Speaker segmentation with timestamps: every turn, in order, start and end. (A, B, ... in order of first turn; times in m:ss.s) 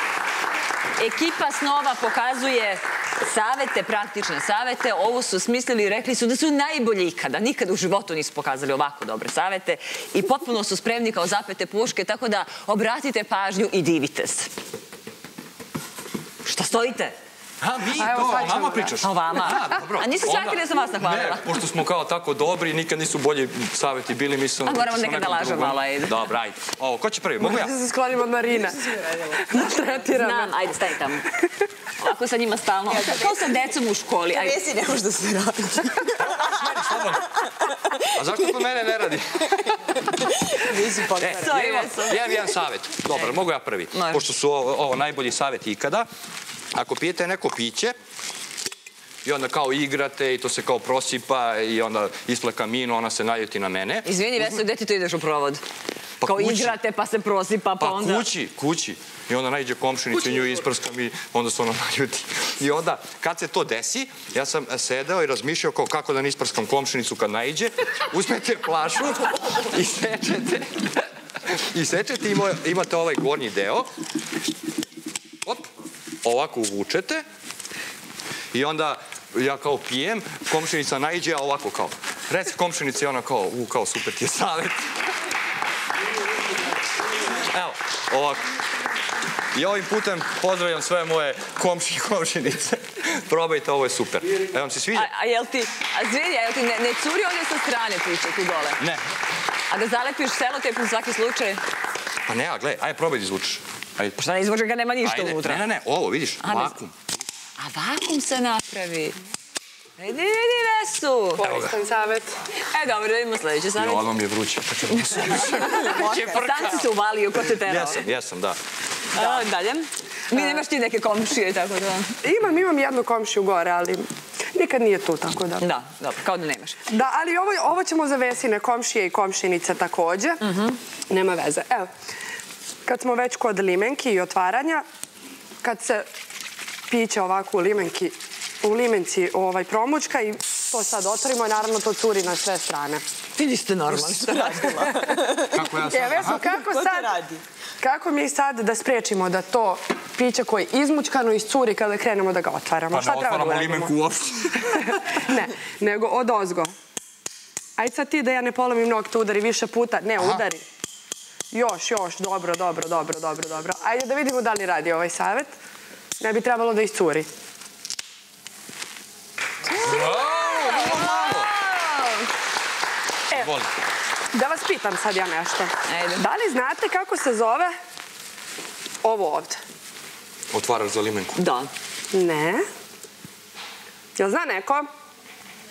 0:01.0-0:14.5 A
0:16.4-0:17.2 A
0:17.6-0:27.7 B
0:18.0-0:19.0 C
0:19.0-0:21.5 A
0:24.6-0:26.3 A
0:27.4-0:30.6 C
0:30.1-0:31.3 A
0:31.3-0:31.6 C
0:32.0-0:34.6 A
0:32.9-0:33.6 D
0:34.3-0:39.0 D
0:36.2-0:37.3 B
0:38.1-0:40.0 B
0:39.6-0:41.7 D
0:41.2-0:46.1 B
0:41.4-0:42.3 A
0:43.9-0:44.3 A
0:46.7-0:48.0 B
0:49.2-0:54.6 B
0:54.0-0:55.6 A
0:56.2-0:56.8 B
0:56.2-0:58.3 A
0:57.8-1:13.9 B
1:16.2-1:17.2 B
1:18.5-1:24.8 B
1:27.5-1:28.4 B
1:29.5-1:35.1 B
1:34.9-1:38.8 A
1:39.7-1:41.6 A
1:42.3-1:44.2 B
1:44.2-1:45.6 A
1:45.0-1:46.9 B
1:46.4-1:46.8 A
1:47.6-1:49.2 A
1:50.0-1:51.4 A
1:51.4-1:52.3 C
1:51.4-1:51.7 B
1:52.5-1:54.0 A
1:53.8-1:56.9 B
1:55.1-1:58.0 A
1:55.8-1:56.8 D
1:57.5-1:58.6 B
1:59.1-2:02.2 A
2:02.2-2:05.6 C
2:05.6-2:06.8 A
2:06.9-2:10.4 C
2:10.4-2:10.8 A
2:11.1-2:11.9 C
2:12.8-2:14.8 C
2:15.6-2:16.1 C
2:16.9-2:23.0 C
2:23.4-2:25.1 A
2:24.1-2:25.7 D
2:25.5-2:26.5 B
2:25.8-2:27.1 C
2:26.4-2:27.4 D
2:27.8-2:34.0 C
2:32.9-2:35.1 B
2:34.7-2:36.7 C
2:37.8-2:40.6 C
2:40.2-2:40.4 B
2:41.5-2:45.5 C
2:46.2-2:47.3 C
2:49.7-2:52.3 A
2:49.8-2:51.5 B
2:53.3-2:53.7 B
2:54.3-2:57.7 C
2:55.9-2:56.3 A
2:59.0-2:59.6 C
3:00.5-3:01.4 B
3:01.4-3:01.7 A
3:02.1-3:02.6 C
3:04.2-3:04.9 C